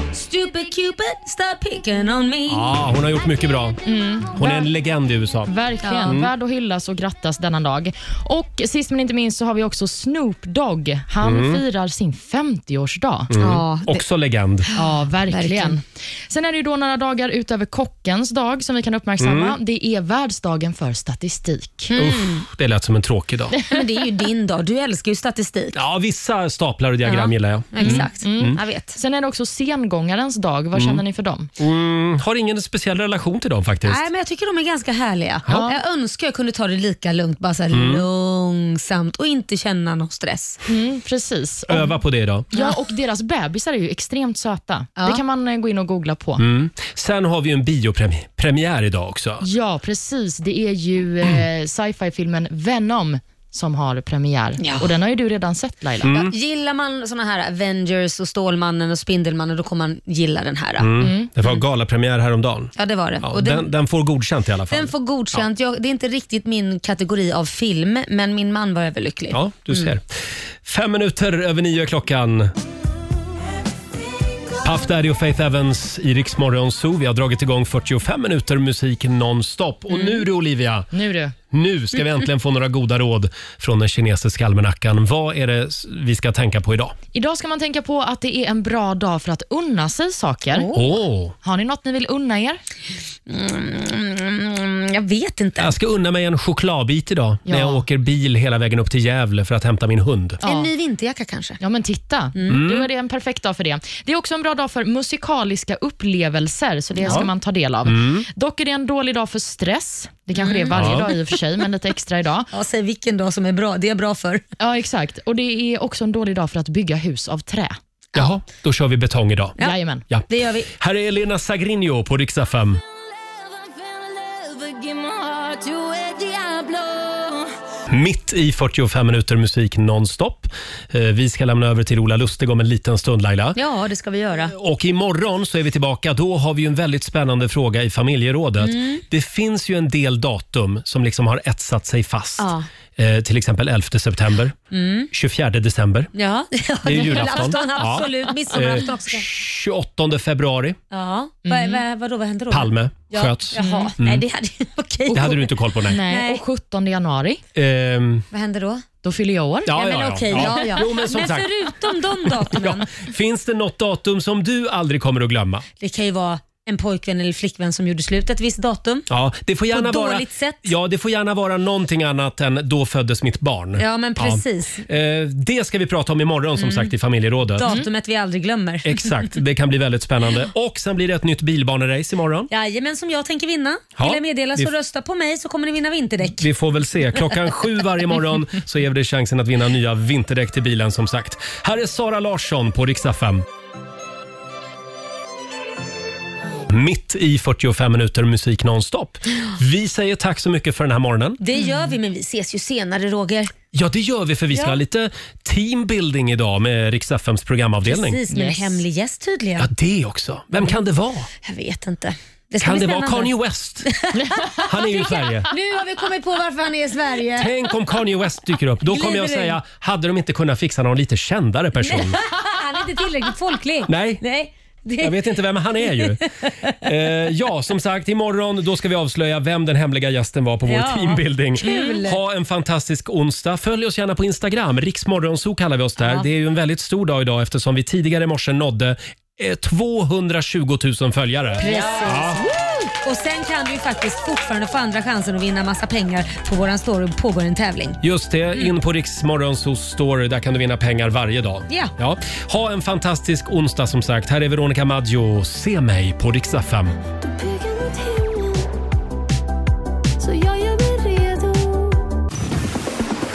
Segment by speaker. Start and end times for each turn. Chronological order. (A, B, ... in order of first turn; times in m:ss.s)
0:00.1-0:02.7 A
0:02.5-0:03.8 B
0:03.0-0:04.6 C
0:03.8-0:04.7 D
0:04.4-0:05.5 B
0:05.4-0:13.3 D
0:05.8-0:06.2 A
0:06.0-0:06.3 B
0:11.2-0:11.6 B
0:13.3-0:14.7 B
0:13.4-0:14.0 A
0:14.6-0:15.8 A
0:14.8-0:21.9 D
0:19.2-0:19.6 B
0:21.9-0:22.4 A
0:21.9-0:23.6 B
0:23.6-0:23.8 D
0:23.6-0:25.8 A
0:25.7-0:28.6 B
0:27.0-0:29.0 A
0:27.8-0:31.5 D
0:30.7-0:31.0 B
0:31.6-0:34.0 B
0:33.8-0:40.6 A
0:35.5-0:35.7 D
0:37.7-0:38.0 B
0:40.7-0:41.9 D
0:41.7-0:42.5 B
0:42.5-0:46.4 D
0:46.4-0:49.4 B
0:49.4-0:56.1 D
0:54.6-0:54.9 A
0:56.0-0:56.3 B
0:56.1-1:01.0 A
1:00.8-1:05.4 B
1:01.0-1:01.3 D
1:02.8-1:03.7 A
1:04.7-1:09.9 A
1:09.3-1:10.0 B
1:10.6-1:12.5 B
1:14.6-1:20.9 B
1:20.9-1:21.3 D
1:21.5-1:26.9 B
1:27.1-1:30.7 D
1:30.5-1:30.8 A
1:30.7-1:31.3 B
1:31.4-1:32.6 D
1:33.3-1:35.7 A
1:35.6-1:40.4 B
1:37.4-1:37.8 D
1:40.4-1:41.6 A
1:40.4-1:40.7 D
1:41.6-1:52.5 D
1:42.3-1:42.6 A
1:42.5-1:42.9 B
1:47.0-1:47.3 A
1:47.8-1:48.3 B
1:50.4-1:51.3 A
1:50.7-1:51.0 B
1:52.5-1:54.4 A
1:54.6-1:57.8 D
1:58.2-1:59.5 B
1:59.6-2:00.0 D
2:00.1-2:02.8 B
2:00.3-2:00.7 A
2:02.9-2:07.5 C
2:07.9-2:13.6 B
2:13.5-2:14.5 A
2:14.5-2:24.6 B
2:18.6-2:19.0 A
2:22.4-2:22.7 A
2:24.7-2:25.1 A
2:25.1-2:26.1 B
2:26.1-2:29.3 A
2:26.8-2:30.8 B
2:30.9-2:36.4 A
2:31.4-2:31.8 D
2:32.5-2:34.2 B
2:33.6-2:33.9 D
2:35.1-2:36.0 B
2:35.9-2:37.4 D
2:37.5-2:38.2 B
2:38.3-2:38.8 A
2:39.0-2:39.8 D
2:39.7-2:41.5 B
2:39.7-2:43.0 A
2:42.2-2:45.6 B
2:45.8-2:49.1 A
2:49.1-2:57.6 B
2:49.7-2:50.7 A
2:53.8-2:54.8 A
2:56.6-2:56.9 A
2:57.6-2:59.3 A
2:57.6-2:57.8 D
2:58.8-3:02.5 B
3:02.5-3:06.4 A
3:04.0-3:04.7 B
3:06.3-3:13.4 B
3:16.7-3:21.4 B
3:21.4-3:23.5 A
3:21.5-3:21.9 D
3:23.7-3:28.2 B
3:24.5-3:24.8 A
3:27.8-3:29.7 A
3:28.3-3:28.8 D
3:29.6-3:31.3 B
3:31.4-3:37.5 A
3:32.6-3:33.9 B
3:34.2-3:34.6 D
3:34.6-3:35.5 B
3:37.4-3:42.2 B
3:38.9-3:39.6 A
3:41.8-3:46.8 A
3:43.9-3:44.2 B
3:45.0-3:46.2 B
3:46.8-4:02.4 B
3:50.7-3:52.2 A
3:56.0-3:56.2 A
4:01.6-4:08.0 A
4:08.0-4:16.9 B
4:17.2-4:18.7 C
4:20.2-4:22.1 C